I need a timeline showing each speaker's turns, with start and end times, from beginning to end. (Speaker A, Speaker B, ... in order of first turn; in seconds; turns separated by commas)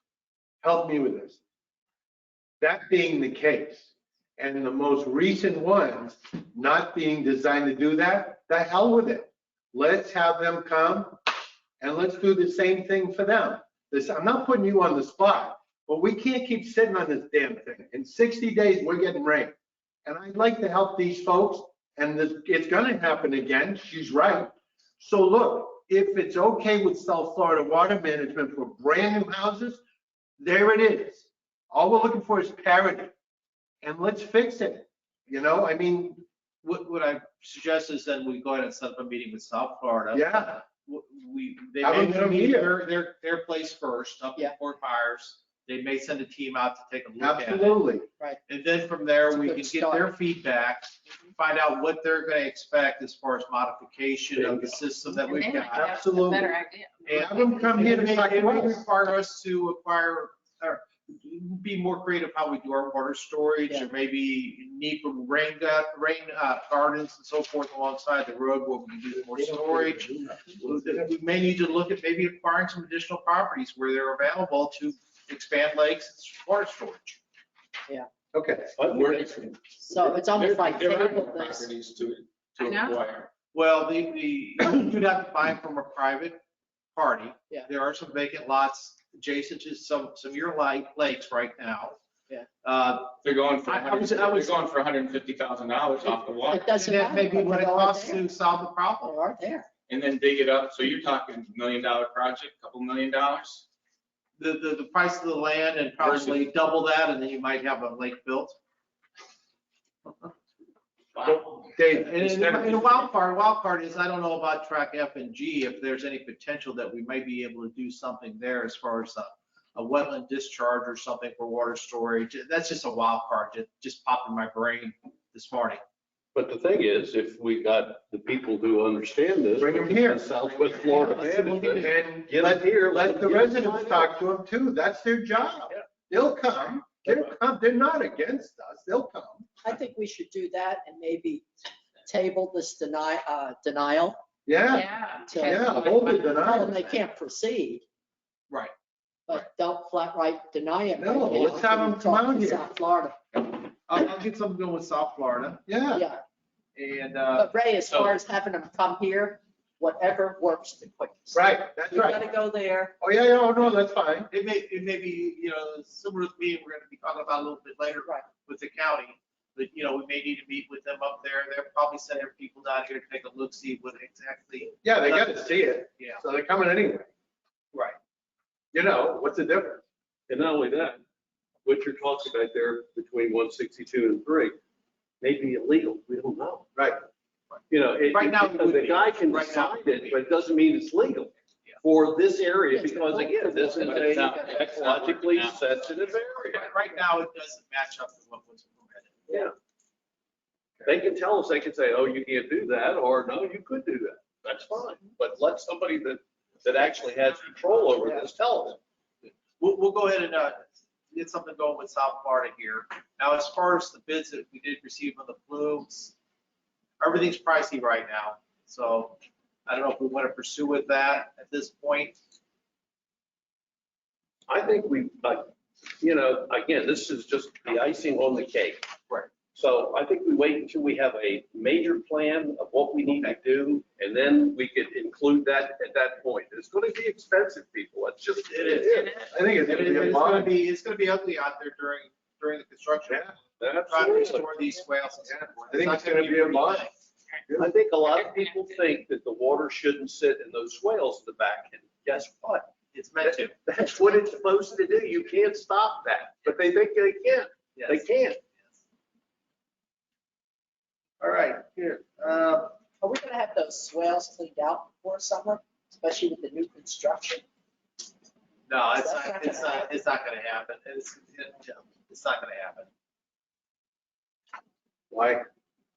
Speaker A: 0.6-1.4, Speaker A: 2.6-11.2, Speaker A: 11.8-19.5, Speaker A: 20.1-29.8, Speaker A: 30.4-33.1, Speaker A: 33.8-36.2, Speaker B: 36.6-47.8, Speaker A: 40.1-40.6, Speaker A: 41.8-42.7, Speaker A: 47.2-48.0, Speaker B: 48.5-55.9, Speaker C: 49.3-50.1, Speaker D: 55.2-57.5, Speaker A: 55.6-56.5, Speaker A: 57.0-58.8, Speaker B: 57.0-77.2, Speaker A: 69.3-71.1, Speaker A: 78.3-78.7, Speaker E: 78.8-79.5, Speaker F: 78.9-83.3, Speaker C: 79.8-81.7, Speaker D: 82.6-82.9, Speaker B: 83.5-86.4, Speaker B: 86.9-92.0, Speaker B: 92.6-94.5, Speaker F: 93.2-97.0, Speaker C: 96.5-98.3, Speaker B: 96.7-99.2, Speaker C: 99.0-99.7, Speaker F: 99.9-103.6, Speaker B: 104.4-108.5, Speaker F: 106.0-106.4, Speaker A: 111.2-113.1, Speaker B: 111.9-125.8, Speaker E: 126.3-134.1, Speaker A: 129.6-139.5, Speaker B: 130.8-131.9, Speaker E: 137.0-137.3, Speaker C: 139.6-141.5, Speaker C: 142.1-144.2, Speaker A: 144.4-146.7, Speaker D: 144.7-146.0, Speaker C: 145.3-147.8, Speaker C: 149.3-154.1, Speaker A: 151.0-152.6, Speaker B: 153.9-155.8, Speaker A: 155.7-156.1, Speaker C: 155.9-156.2, Speaker B: 156.7-157.6, Speaker C: 157.3-162.9, Speaker F: 157.8-158.2, Speaker A: 161.3-162.2, Speaker A: 163.0-164.3, Speaker B: 164.3-176.2, Speaker C: 168.1-168.4, Speaker A: 174.8-177.1, Speaker B: 177.7-178.0, Speaker A: 178.7-179.8, Speaker E: 180.3-181.0, Speaker E: 181.6-184.6, Speaker E: 185.2-186.7, Speaker B: 187.5-190.2, Speaker E: 187.7-196.7, Speaker C: 192.7-195.0, Speaker F: 193.8-195.7, Speaker B: 196.5-199.3, Speaker E: 199.3-199.5, Speaker E: 200.8-208.8, Speaker B: 209.6-216.2, Speaker B: 217.0-222.2, Speaker E: 224.5-228.8, Speaker E: 229.5-240.0, Speaker B: 233.0-233.4, Speaker B: 238.4-243.3, Speaker A: 239.3-240.5, Speaker E: 243.6-244.5, Speaker B: 243.9-246.9, Speaker A: 245.7-246.9, Speaker E: 247.6-258.4, Speaker B: 252.9-253.6, Speaker B: 257.7-258.1, Speaker B: 261.2-262.7, Speaker C: 263.0-267.4, Speaker B: 268.7-272.9, Speaker C: 268.9-269.9, Speaker A: 275.1-275.4